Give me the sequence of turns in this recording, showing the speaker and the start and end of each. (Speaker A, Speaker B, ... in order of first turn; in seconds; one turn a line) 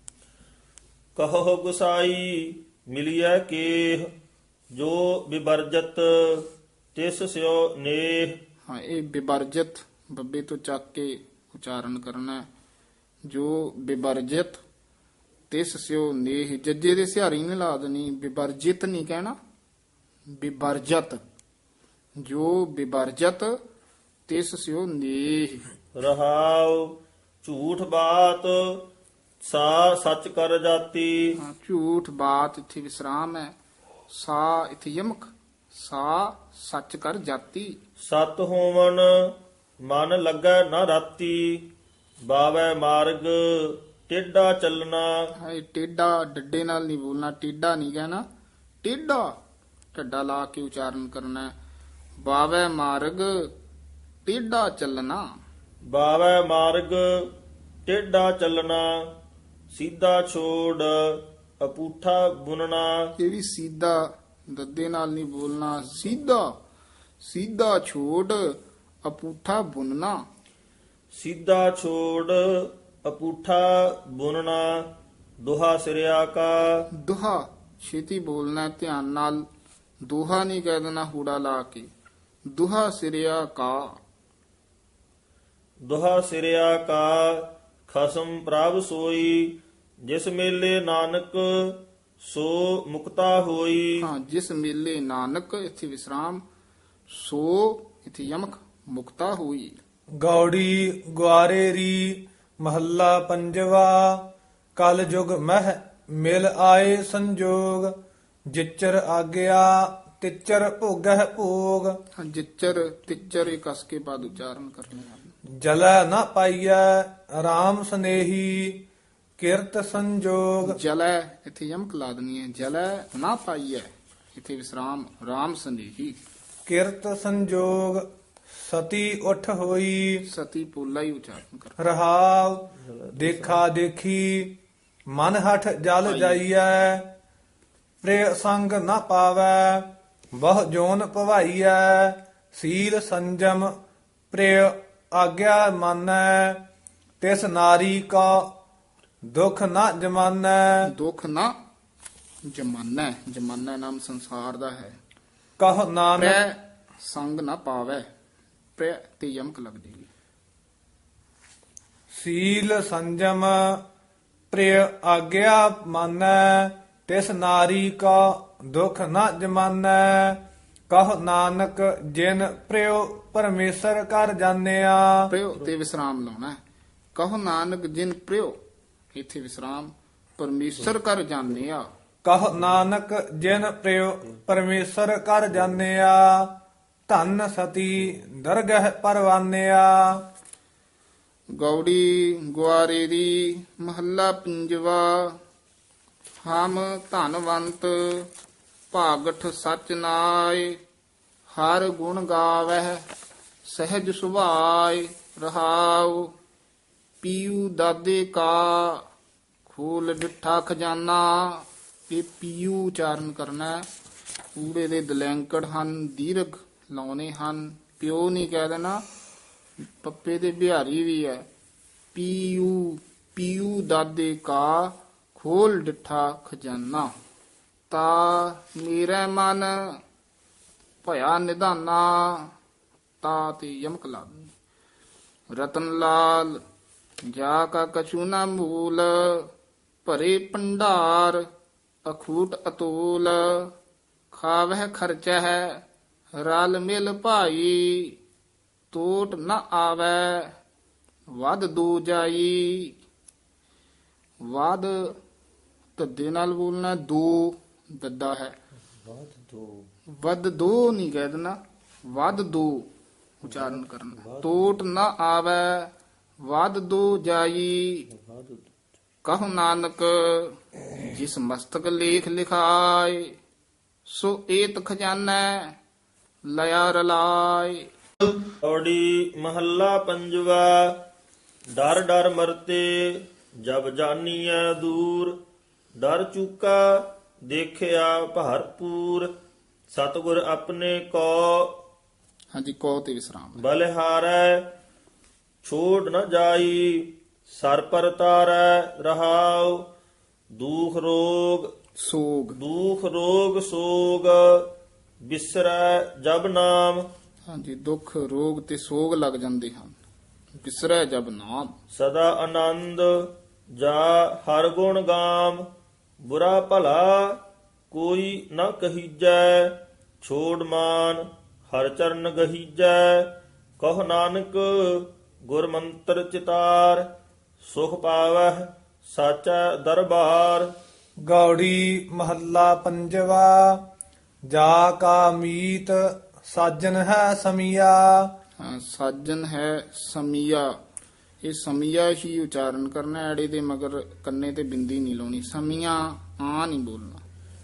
Speaker A: 1.2-4.1
Speaker A: 4.7-8.4
Speaker B: 8.7-12.5
Speaker B: 13.3-14.6
Speaker B: 15.5-19.4
Speaker B: 20.4-21.2
Speaker B: 22.2-23.5
Speaker B: 24.3-25.7
Speaker A: 25.9-28.9
Speaker A: 29.4-31.3
Speaker B: 31.4-33.5
Speaker B: 34.1-37.8
Speaker A: 38.0-41.7
Speaker A: 42.2-45.1
Speaker B: 45.4-48.2
Speaker B: 48.8-49.3
Speaker B: 49.9-51.5
Speaker B: 52.2-53.5
Speaker B: 54.2-55.2
Speaker A: 55.9-57.3
Speaker A: 57.9-58.9
Speaker A: 59.7-63.0
Speaker B: 63.2-66.5
Speaker B: 67.2-68.5
Speaker B: 69.0-70.2
Speaker A: 71.1-74.9
Speaker A: 75.4-76.8
Speaker B: 76.9-79.4
Speaker B: 80.1-81.9
Speaker B: 82.5-83.9
Speaker A: 85.9-94.0
Speaker B: 94.0-96.4
Speaker B: 97.1-99.8
Speaker C: 100.2-104.2
Speaker C: 104.8-108.0
Speaker C: 108.5-112.0
Speaker B: 112.2-115.3
Speaker C: 115.6-118.8
Speaker C: 119.4-120.8
Speaker B: 120.7-126.2
Speaker C: 126.7-128.1
Speaker C: 128.6-130.2
Speaker B: 130.2-131.8
Speaker C: 131.8-134.6
Speaker A: 132.8-133.6
Speaker C: 135.1-137.1
Speaker B: 136.1-136.4
Speaker C: 138.0-143.7
Speaker C: 144.3-146.6
Speaker C: 147.2-148.5
Speaker C: 149.3-150.9
Speaker B: 150.9-151.6
Speaker B: 152.5-155.0
Speaker C: 155.6-156.4
Speaker B: 156.2-158.1
Speaker B: 158.8-160.1
Speaker C: 162.1-163.8
Speaker C: 164.5-175.3
Speaker B: 175.3-176.6
Speaker B: 177.2-178.6
Speaker B: 179.1-181.8
Speaker C: 182.2-186.6
Speaker C: 187.1-190.2
Speaker B: 191.5-195.4
Speaker B: 196.4-198.3
Speaker B: 198.9-200.8
Speaker B: 201.6-203.0
Speaker B: 203.7-206.3
Speaker B: 207.2-209.0
Speaker B: 209.7-213.9
Speaker B: 214.6-219.0
Speaker B: 220.0-221.5
Speaker B: 222.1-227.1
Speaker B: 227.9-229.8
Speaker B: 231.0-232.5
Speaker B: 233.2-234.5
Speaker B: 235.5-236.6
Speaker B: 237.3-239.5
Speaker B: 240.1-241.4
Speaker B: 242.1-243.7
Speaker B: 244.3-245.8
Speaker B: 246.4-248.2
Speaker B: 248.9-250.5
Speaker B: 251.3-253.0
Speaker B: 254.4-255.1
Speaker B: 256.0-258.5
Speaker A: 259.1-259.9
Speaker B: 260.2-261.6
Speaker B: 262.1-262.9
Speaker B: 263.4-265.9
Speaker A: 263.5-264.7
Speaker B: 266.4-268.1
Speaker A: 268.1-268.7
Speaker B: 269.2-273.3
Speaker B: 274.1-275.8
Speaker B: 276.5-277.9
Speaker A: 278.6-281.0
Speaker A: 281.8-285.4
Speaker A: 286.0-289.3
Speaker A: 289.9-291.8
Speaker B: 292.5-293.6
Speaker A: 293.6-294.7
Speaker A: 295.6-299.9
Speaker A: 300.5-301.7
Speaker B: 302.0-302.6
Speaker A: 302.5-304.7
Speaker A: 305.2-307.1
Speaker B: 307.5-310.0
Speaker B: 310.6-311.7
Speaker A: 311.9-315.6
Speaker A: 316.2-327.1
Speaker A: 327.6-330.7
Speaker C: 331.2-333.8
Speaker C: 334.5-338.3
Speaker B: 338.6-340.7
Speaker B: 341.4-347.2